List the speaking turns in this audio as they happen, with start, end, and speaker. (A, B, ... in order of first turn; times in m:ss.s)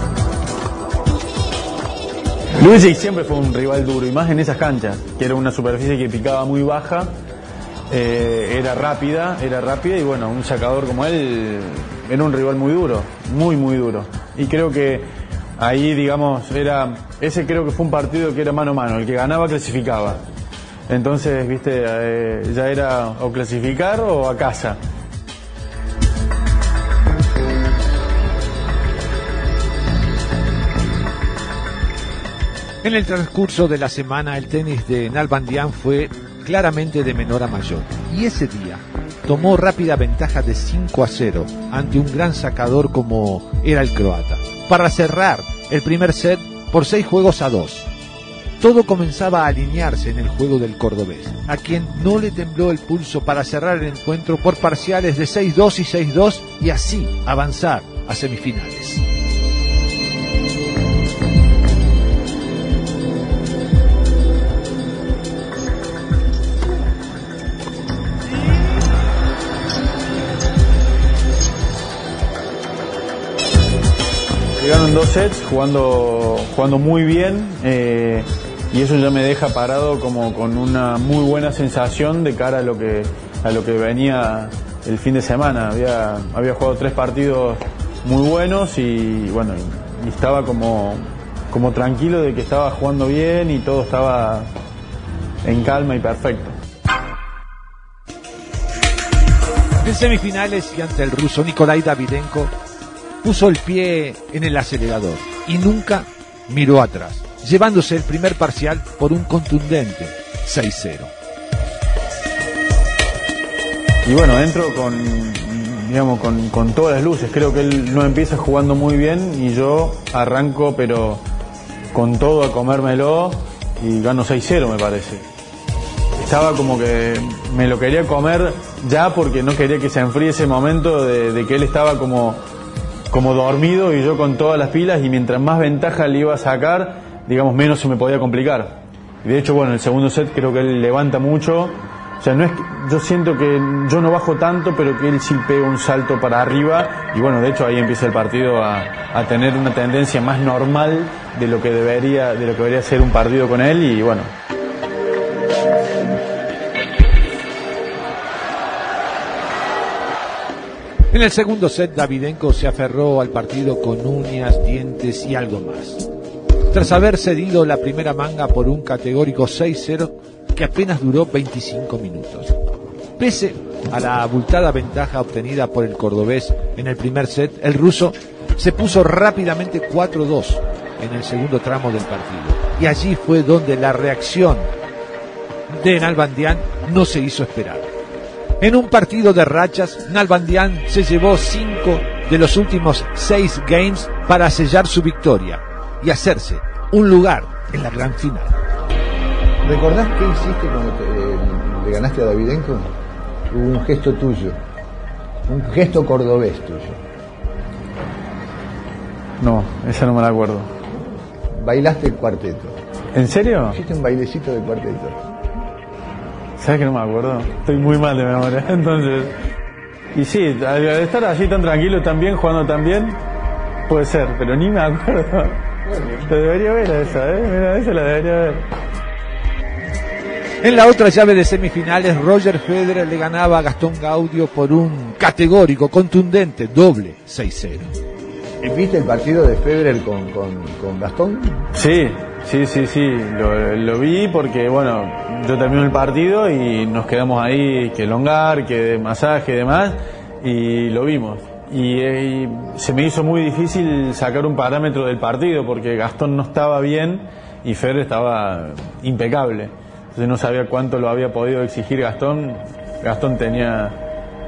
0:02.6-0:07.1 A
0:07.9-0:15.1 A
0:15.6-0:20.2 A
0:20.9-0:24.8 A
0:32.8-0:47.9 B
0:48.6-0:59.0 B
1:14.6-1:34.5 A
1:35.4-1:36.6 A
1:39.8-1:42.5 B
1:43.2-1:51.1 B
1:54.0-2:01.2 A
2:01.9-2:05.2 A
2:06.2-2:12.4 A
2:13.1-2:34.3 A
2:41.1-2:46.0 B
2:46.7-2:52.6 B
2:53.2-3:04.7 B
3:05.7-3:07.9 B
3:08.6-3:18.6 B
3:19.6-3:22.9 C
3:23.5-3:24.6 C
3:25.5-3:27.0 C
3:29.4-3:30.7 A
3:31.6-3:32.8 C
3:33.1-3:33.8 A
3:33.7-3:35.2 C
3:36.6-3:39.4 A
3:40.1-3:43.2 A
3:43.9-3:48.7 A
3:50.6-3:57.9 B
3:58.6-4:01.7 C
4:01.7-4:24.0 A